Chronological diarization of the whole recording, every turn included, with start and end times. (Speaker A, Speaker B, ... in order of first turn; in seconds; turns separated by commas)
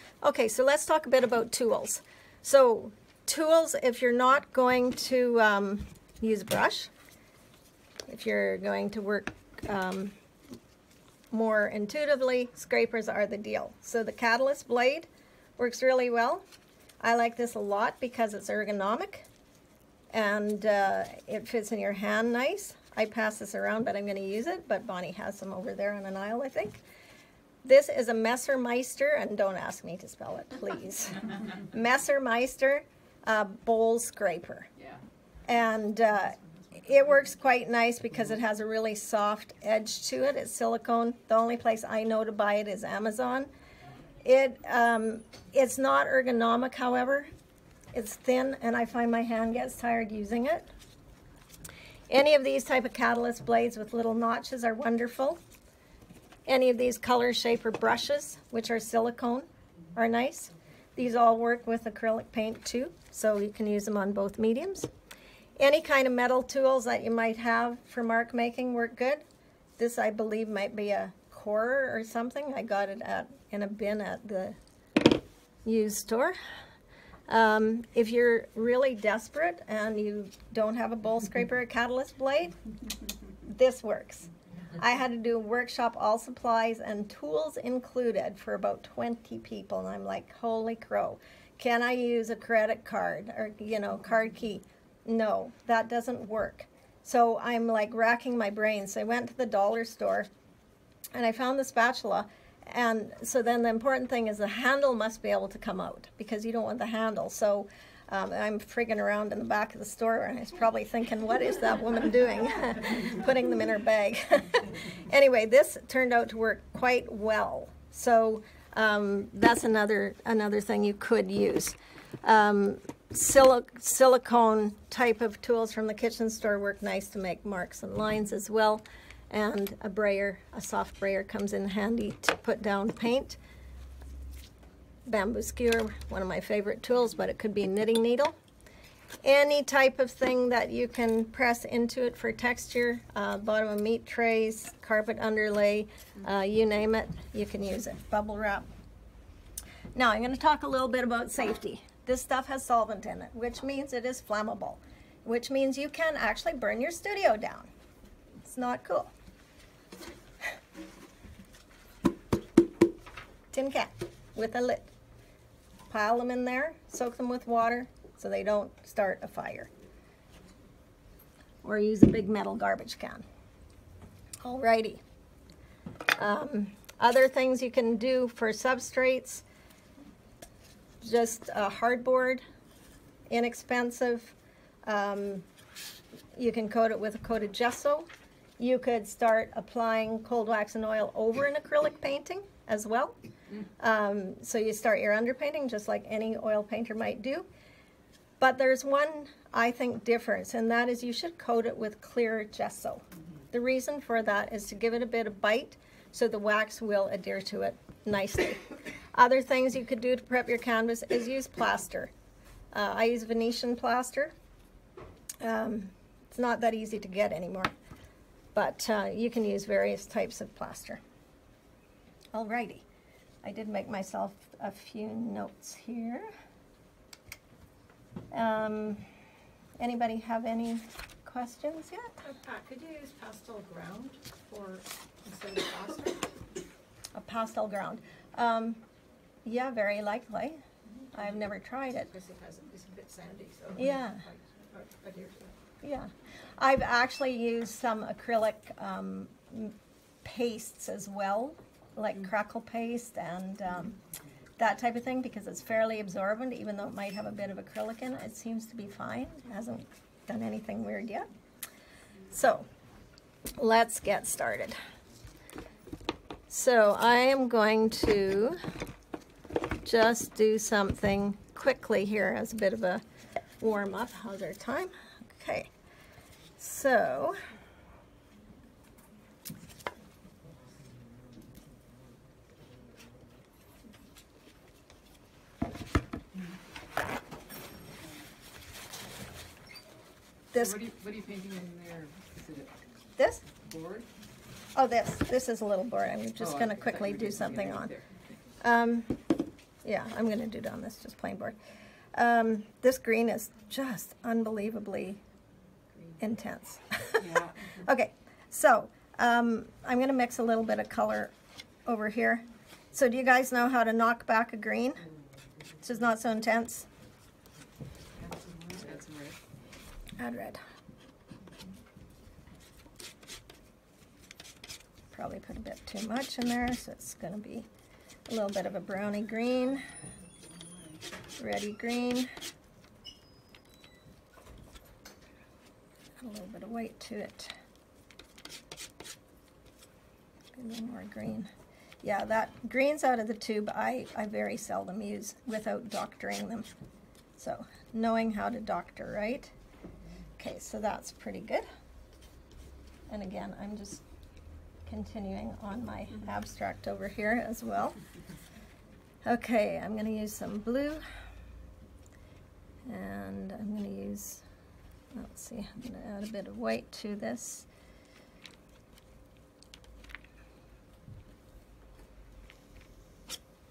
Speaker A: 0.2-6.9, Speaker A: 8.1-10.1, Speaker A: 11.3-16.4, Speaker A: 17.0-19.3, Speaker A: 20.1-26.8, Speaker A: 27.6-34.7, Speaker B: 34.8-35.0, Speaker A: 35.5-43.5, Speaker A: 44.2-47.3, Speaker A: 47.9-50.7, Speaker A: 52.1-55.4, Speaker A: 56.5-64.9, Speaker A: 65.6-69.2, Speaker A: 69.8-74.6, Speaker A: 75.7-76.4, Speaker A: 77.3-82.5, Speaker A: 83.4-100.3, Speaker A: 101.1-133.4, Speaker A: 135.1-138.3, Speaker A: 139.2-148.7, Speaker A: 149.9-157.7, Speaker A: 158.4-159.1, Speaker A: 163.5-164.9, Speaker A: 165.9-169.7, Speaker A: 171.6-173.2, Speaker A: 174.4-175.0, Speaker A: 176.2-179.4, Speaker A: 181.0-182.4, Speaker A: 183.3-185.5, Speaker A: 186.3-188.1, Speaker A: 188.6-193.2, Speaker A: 193.8-197.5, Speaker A: 198.4-212.1, Speaker A: 212.7-214.3, Speaker A: 215.4-217.7, Speaker A: 218.6-221.0, Speaker A: 222.3-222.8, Speaker A: 223.4-226.3, Speaker A: 228.3-229.1, Speaker A: 229.8-232.1, Speaker C: 232.2-236.2, Speaker A: 237.1-238.8, Speaker A: 239.4-240.6, Speaker A: 241.1-242.1, Speaker C: 242.1-245.5, Speaker A: 243.8-244.2, Speaker A: 245.8-254.0, Speaker A: 254.6-261.3, Speaker A: 262.3-262.7, Speaker A: 263.6-264.8, Speaker A: 266.5-268.6, Speaker A: 269.8-273.0, Speaker A: 273.6-275.7, Speaker A: 276.6-277.4, Speaker A: 290.5-290.8, Speaker B: 290.6-292.8, Speaker A: 293.2-293.4, Speaker B: 293.5-294.1, Speaker A: 294.8-297.9, Speaker B: 296.4-298.1, Speaker A: 298.6-299.2, Speaker A: 299.8-301.6, Speaker A: 302.1-305.2, Speaker A: 306.2-311.3, Speaker B: 307.2-307.8, Speaker A: 311.9-315.0, Speaker A: 315.8-316.9, Speaker C: 318.1-319.0, Speaker B: 318.8-319.4, Speaker A: 320.2-320.6, Speaker A: 325.1-327.7, Speaker A: 328.3-329.9, Speaker C: 330.6-330.9, Speaker A: 331.4-332.3, Speaker A: 336.2-337.5, Speaker A: 340.5-341.5, Speaker A: 342.0-346.7, Speaker A: 347.4-349.5, Speaker A: 350.4-351.7, Speaker A: 353.1-354.0, Speaker A: 354.9-358.0, Speaker A: 359.2-361.0, Speaker A: 362.9-364.4, Speaker A: 365.1-367.7